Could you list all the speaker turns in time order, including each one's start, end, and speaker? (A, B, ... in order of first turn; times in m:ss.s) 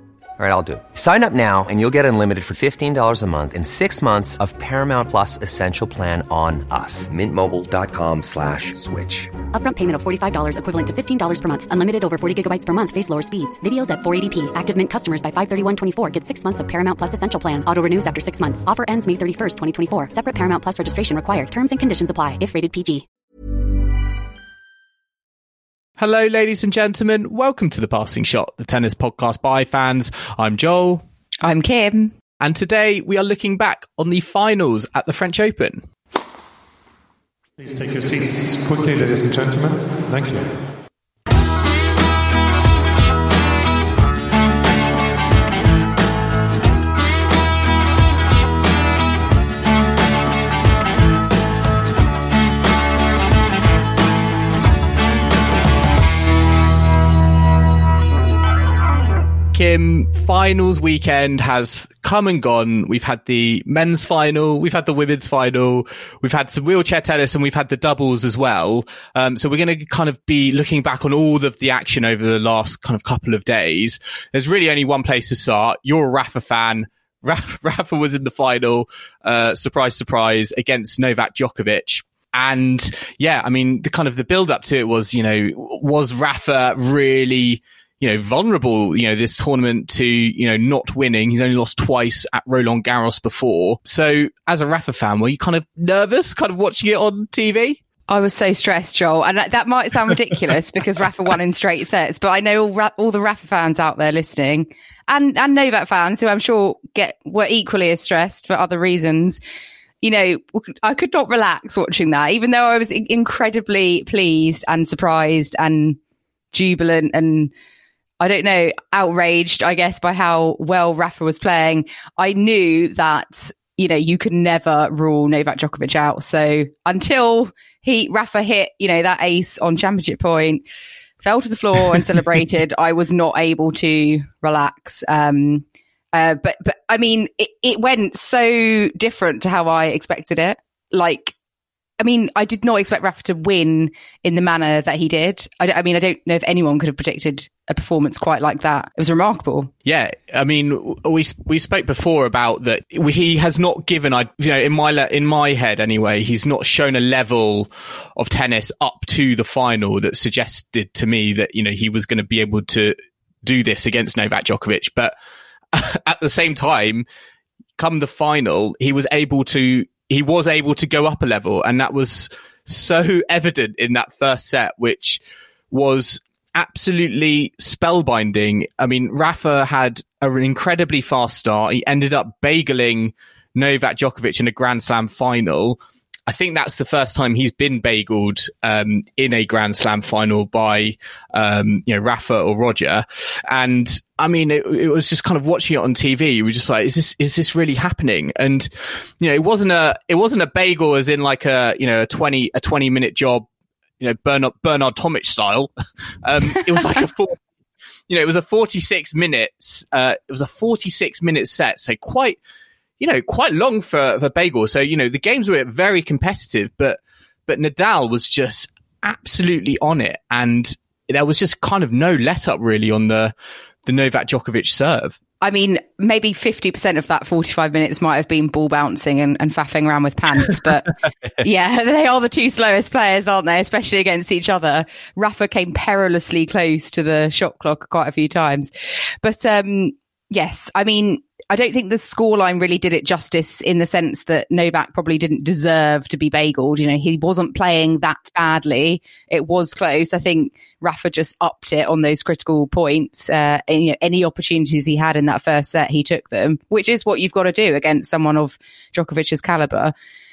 0:00.4-0:09.3 A
0:09.5-0:23.0 B
0:26.0-0:31.0 C
0:31.4-0:32.1 D
0:32.4-0:35.8 C
0:37.6-0:40.5 E
0:59.5-1:37.8 C
1:38.1-1:49.4 D
1:50.0-1:56.0 D
1:56.5-1:57.5 D
1:58.2-2:10.6 D
2:11.2-2:21.3 D
2:22.0-2:29.7 D
2:29.8-2:45.1 C
2:45.7-2:47.0 C
2:47.8-3:23.4 C
3:24.0-3:25.7 C
3:26.2-3:27.4 C
3:28.1-3:32.4 C
3:33.0-3:43.3 C
3:43.8-3:45.2 C
3:45.4-3:58.7 D
3:59.2-4:19.9 D